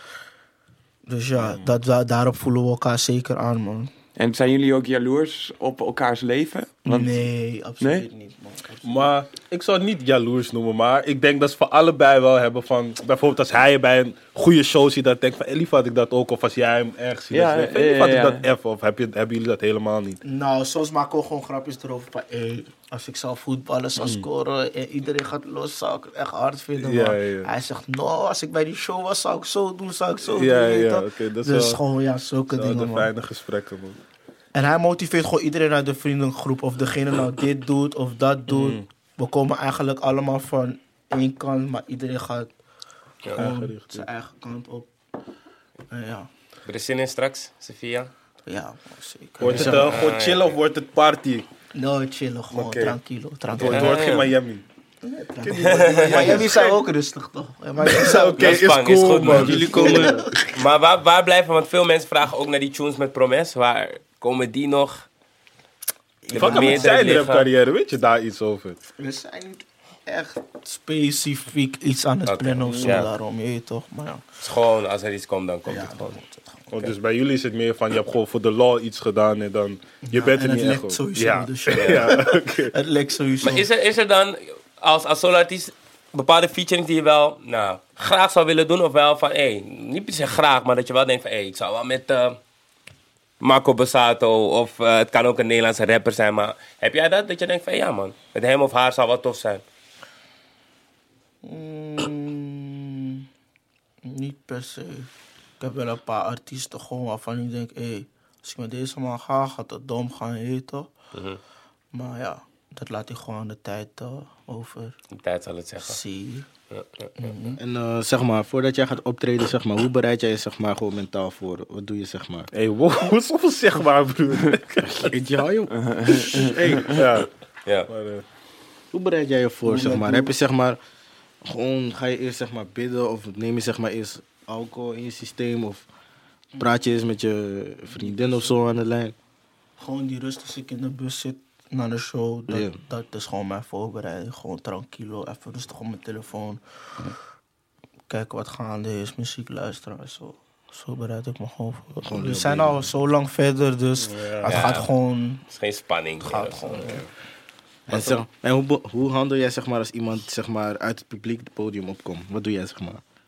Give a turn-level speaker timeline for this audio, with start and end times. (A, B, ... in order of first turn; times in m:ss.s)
0:01.0-0:03.9 A
0:01.4-0:01.7 B
0:04.2-0:07.3 C
0:06.8-0:09.1 A
0:07.8-0:08.0 C
0:08.8-0:20.2 B
0:17.3-0:18.4 C
0:20.2-0:33.1 A
0:24.0-0:24.2 B
0:26.8-0:27.5 B
0:30.2-0:31.8 B
0:32.5-0:34.0 B
0:34.5-0:42.5 A
0:38.5-0:38.8 B
0:43.3-0:44.0 B
0:43.4-0:44.9 A
0:45.9-0:46.3 A
0:46.6-0:48.1 D
0:48.5-0:49.9 A
0:49.4-0:51.4 B
0:49.4-0:49.9 E
0:49.8-0:50.4 D
0:51.7-0:54.1 A
0:52.5-0:53.0 B
0:53.5-0:54.6 B
0:53.6-0:54.3 D
0:55.0-0:58.6 A
0:55.4-0:56.8 B
0:55.6-0:56.4 D
0:57.8-1:00.3 B
0:58.4-0:59.9 D
0:59.2-1:00.3 E
0:59.6-1:00.4 A
1:00.5-1:05.0 D
1:06.2-1:07.1 A
1:06.3-1:07.5 D
1:06.3-1:08.8 B
1:09.0-1:14.2 A
1:12.2-1:13.1 D
1:12.6-1:13.1 B
1:14.4-1:16.2 D
1:15.7-1:16.9 A
1:16.7-1:22.7 B
1:20.0-1:23.7 A
1:21.7-1:22.1 D
1:23.4-1:32.4 D
1:33.4-1:39.6 D
1:41.4-1:43.2 A
1:44.0-1:45.1 A
1:45.6-1:50.9 A
1:51.1-1:51.4 D
1:51.9-1:54.9 A
1:55.1-1:56.0 D
1:55.8-1:56.5 A
1:56.7-1:57.1 D
1:57.2-1:57.6 A
1:57.6-2:02.5 E
2:02.5-2:05.1 B
2:04.8-2:07.0 E
2:05.7-2:07.0 C
2:06.8-2:07.3 B
2:07.9-2:08.2 B
2:08.9-2:10.8 E
2:09.6-2:10.3 A
2:11.4-2:15.8 E
2:16.6-2:19.1 E
2:19.8-2:27.1 A
2:22.5-2:22.8 E
2:28.1-2:35.4 A
2:32.0-2:32.9 E
2:34.0-2:34.6 B
2:34.4-2:34.9 D
2:35.5-2:37.0 D
2:36.2-2:37.0 A
2:37.9-2:43.0 E